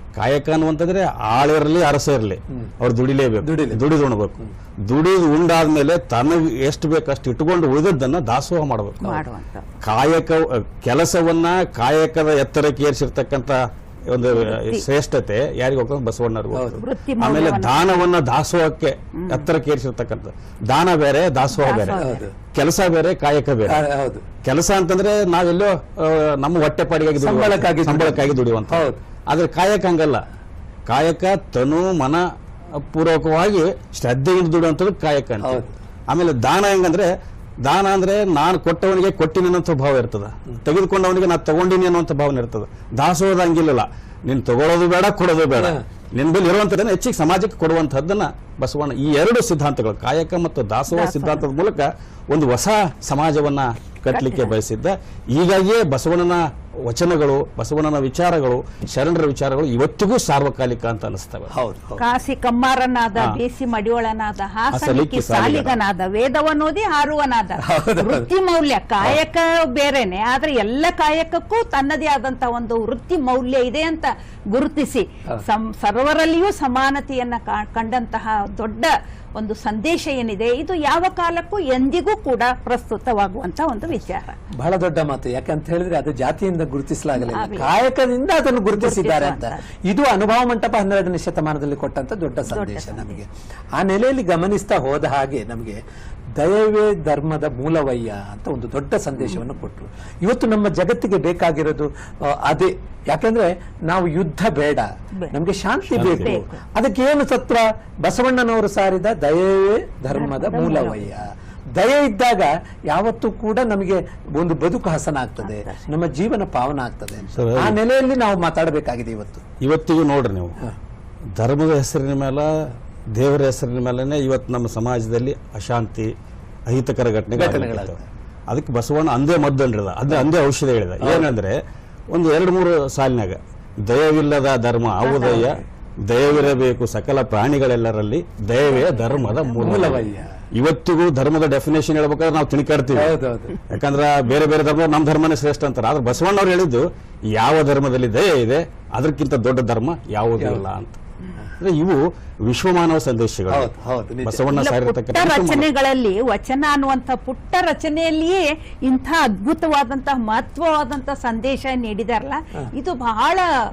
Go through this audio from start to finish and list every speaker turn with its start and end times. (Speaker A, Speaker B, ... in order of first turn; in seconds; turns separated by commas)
Speaker A: 0.1-9.2, Speaker B: 3.4-3.8, Speaker C: 9.0-9.8, Speaker A: 9.8-22.0, Speaker C: 14.3-14.8, Speaker B: 16.5-16.8, Speaker C: 16.8-18.0, Speaker C: 19.1-19.4, Speaker C: 21.5-22.2, Speaker B: 21.9-22.3, Speaker A: 22.5-23.8, Speaker B: 23.7-24.2, Speaker A: 24.4-30.2, Speaker B: 27.2-29.0, Speaker A: 30.9-32.2, Speaker A: 32.8-37.1, Speaker B: 35.4-35.7, Speaker A: 37.6-61.5, Speaker B: 45.6-45.8, Speaker C: 50.9-51.4, Speaker C: 54.1-54.5, Speaker B: 61.5-62.0, Speaker C: 62.0-84.4, Speaker A: 64.7-65.8, Speaker B: 67.6-68.3, Speaker B: 84.5-95.8, Speaker C: 87.2-87.8, Speaker C: 88.7-89.7, Speaker C: 92.5-93.2, Speaker B: 96.4-119.5, Speaker A: 105.9-106.3, Speaker C: 106.1-106.6, Speaker C: 110.1-111.1, Speaker C: 115.4-115.8, Speaker A: 117.3-117.8, Speaker A: 119.6-120.5, Speaker A: 121.4-126.1, Speaker A: 126.7-128.0, Speaker B: 127.3-128.0, Speaker A: 128.5-131.6, Speaker B: 131.0-131.3, Speaker A: 132.1-143.1, Speaker C: 135.0-135.5, Speaker B: 135.3-135.6, Speaker C: 138.7-140.1, Speaker B: 139.6-140.3, Speaker B: 142.9-143.6, Speaker A: 143.7-151.0, Speaker A: 151.6-153.7, Speaker B: 153.5-154.5, Speaker A: 154.2-155.7, Speaker C: 154.5-163.5